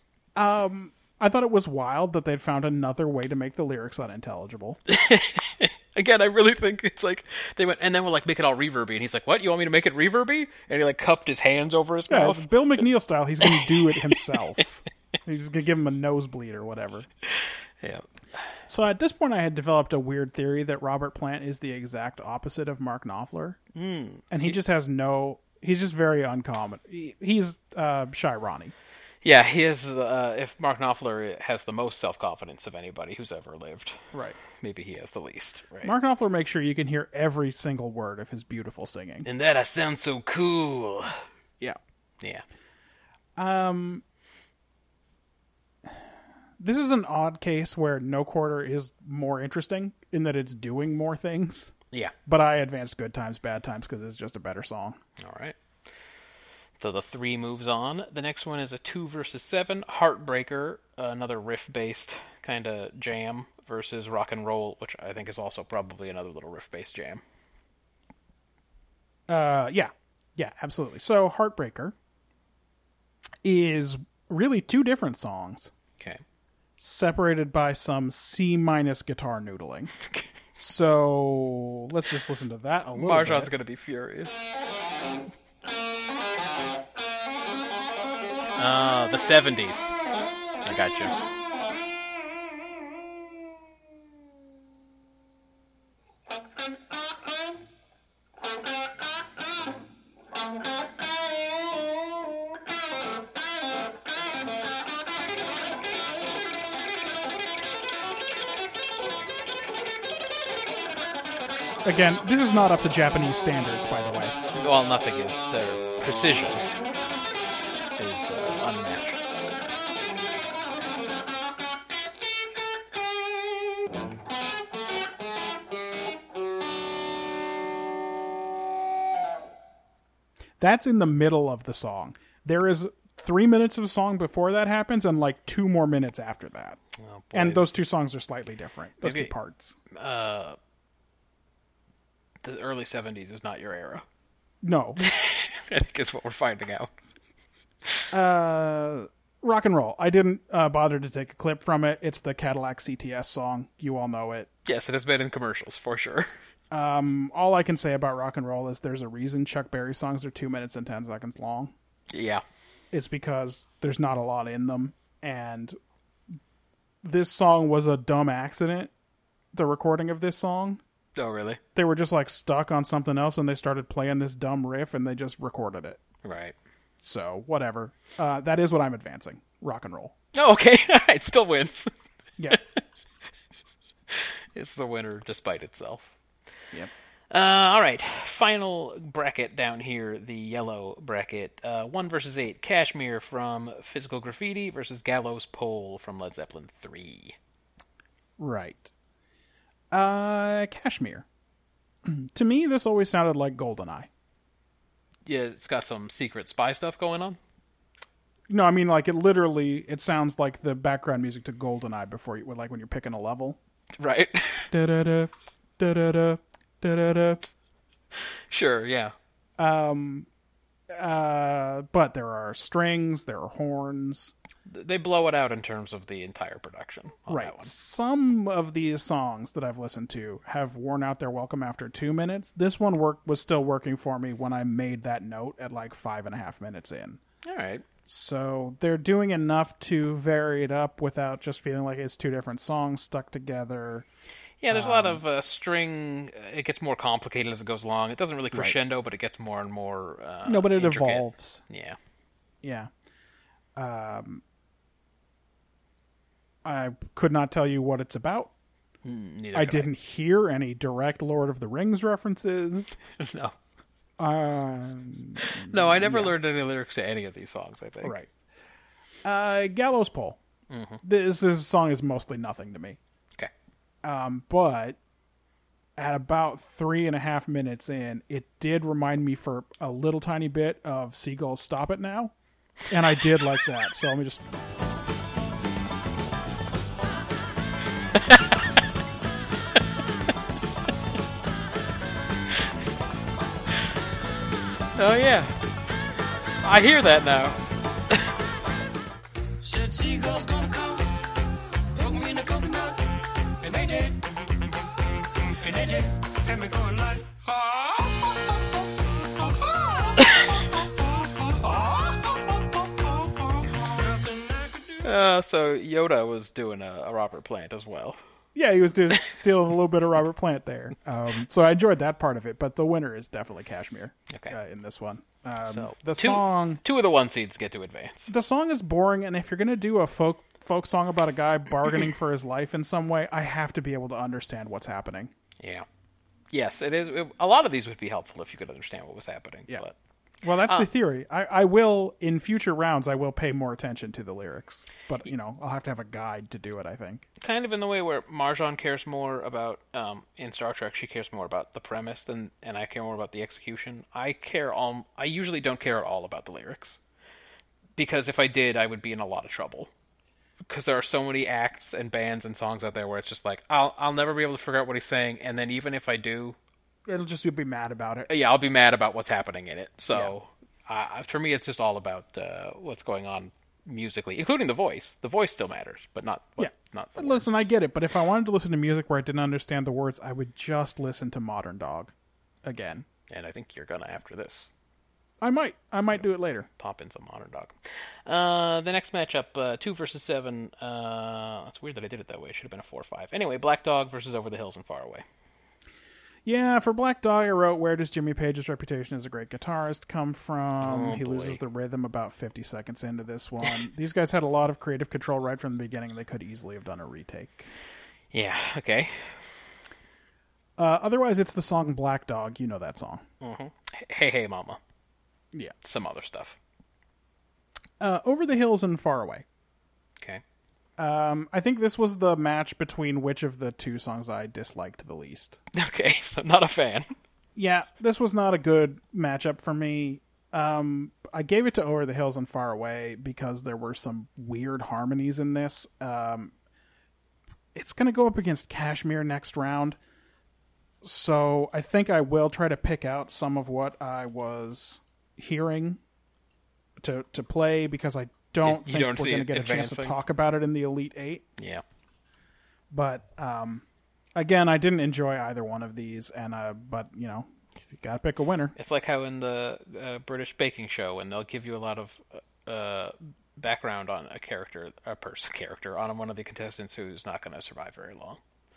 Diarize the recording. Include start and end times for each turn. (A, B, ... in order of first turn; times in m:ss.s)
0:00.4-0:04.8 A
0:04.9-0:12.5 B
0:12.1-0:17.1 A
0:13.5-0:14.3 B
0:17.4-0:18.1 B
0:18.7-0:23.6 A
0:23.8-0:24.6 B
0:24.3-0:28.7 A
0:29.2-0:34.0 B
0:34.1-0:34.4 A
0:34.5-0:35.9 B
0:35.8-0:39.3 A
0:39.2-0:41.1 B
0:43.4-0:44.0 A
0:46.6-0:51.7 A
0:52.3-0:55.0 A
0:55.2-0:55.6 B
0:56.8-1:07.2 B
1:09.3-1:12.0 A
1:13.4-1:15.7 A
1:16.8-1:19.9 A
1:20.6-1:23.5 A
1:23.0-1:24.5 B
1:28.6-1:29.9 B
1:30.6-1:31.2 B
1:51.8-1:54.4 A
1:54.6-1:56.6 B
1:58.0-1:59.2 B
2:10.6-2:16.8 A
2:17.0-2:17.9 B
2:17.3-2:19.8 A
2:19.0-2:19.3 B
2:19.9-2:20.6 B
2:22.4-2:24.0 B
2:24.6-2:25.0 A
2:25.0-2:26.9 B
2:28.1-2:34.5 A
2:34.7-2:36.3 B
2:36.7-2:41.7 A
2:42.1-2:42.4 B
2:42.9-2:45.8 A
2:47.0-2:48.9 A
2:49.5-2:50.8 A
2:51.2-2:51.6 B
2:51.8-2:56.0 A
2:56.2-2:56.6 B
2:57.0-3:00.1 A
3:00.3-3:01.9 B
3:04.1-3:06.1 B
3:07.3-3:17.4 B
3:18.4-3:18.9 A
3:19.9-3:21.3 A
3:22.0-3:24.1 A
3:25.3-3:27.4 B
3:28.5-3:33.6 A
3:34.0-3:34.7 B
3:34.7-3:37.5 A
3:38.5-3:39.2 B
3:39.6-3:40.3 A
3:40.9-3:44.3 A
3:44.7-3:47.7 B
3:47.3-3:57.2 A
3:57.4-3:57.8 B
3:58.1-4:04.1 A
4:04.6-4:12.0 B
4:04.7-4:05.2 A
4:10.4-4:11.6 A
4:12.6-4:12.9 A
4:13.8-4:14.4 A
4:16.6-4:18.5 A
4:19.0-4:19.9 B
4:19.5-4:22.9 A
4:23.2-4:23.6 B
4:24.2-4:26.4 A
4:25.6-4:28.2 B
4:28.0-4:28.3 A
4:29.2-4:30.4 A
4:30.7-4:31.0 B
4:31.0-4:33.0 A
4:34.0-4:35.0 A
4:36.0-4:42.3 A
4:42.9-4:44.4 A
4:48.1-4:48.6 B
4:55.0-4:55.5 B
4:56.6-4:57.6 B
4:59.6-5:01.1 C
5:01.9-5:03.0 C
5:03.6-5:04.2 C
5:05.6-5:08.4 C
5:09.4-5:10.3 C
5:11.4-5:12.4 C
5:13.1-5:14.9 C
5:15.0-5:18.2 B
5:18.6-5:26.8 A
5:24.3-5:24.6 B
5:25.7-5:28.3 B
5:28.3-5:35.3 A
5:35.6-5:35.9 B
5:36.5-5:39.9 B
5:40.4-5:47.2 A
5:47.4-5:57.0 B
5:58.0-5:59.9 B
6:00.6-6:06.6 B
6:07.1-6:08.3 A
6:08.3-6:17.7 B
6:16.6-6:22.1 A
6:22.6-6:23.1 A
6:23.3-6:24.7 B
6:25.4-6:26.7 A
6:26.8-6:35.2 B
6:36.4-6:47.7 A
6:40.8-6:41.6 B
6:48.3-6:49.4 B
6:50.8-6:53.2 A
6:53.4-6:54.8 B
6:55.8-6:56.6 B
6:58.0-6:59.4 A
7:01.0-7:05.6 A
7:05.7-7:07.1 B
7:07.6-7:16.5 A
7:17.7-7:20.0 A
7:21.0-7:26.0 A
7:27.0-7:31.5 A
7:28.6-7:30.2 B
7:31.6-7:31.8 B
7:32.9-7:33.8 A
7:34.4-7:38.8 A
7:38.8-7:48.4 B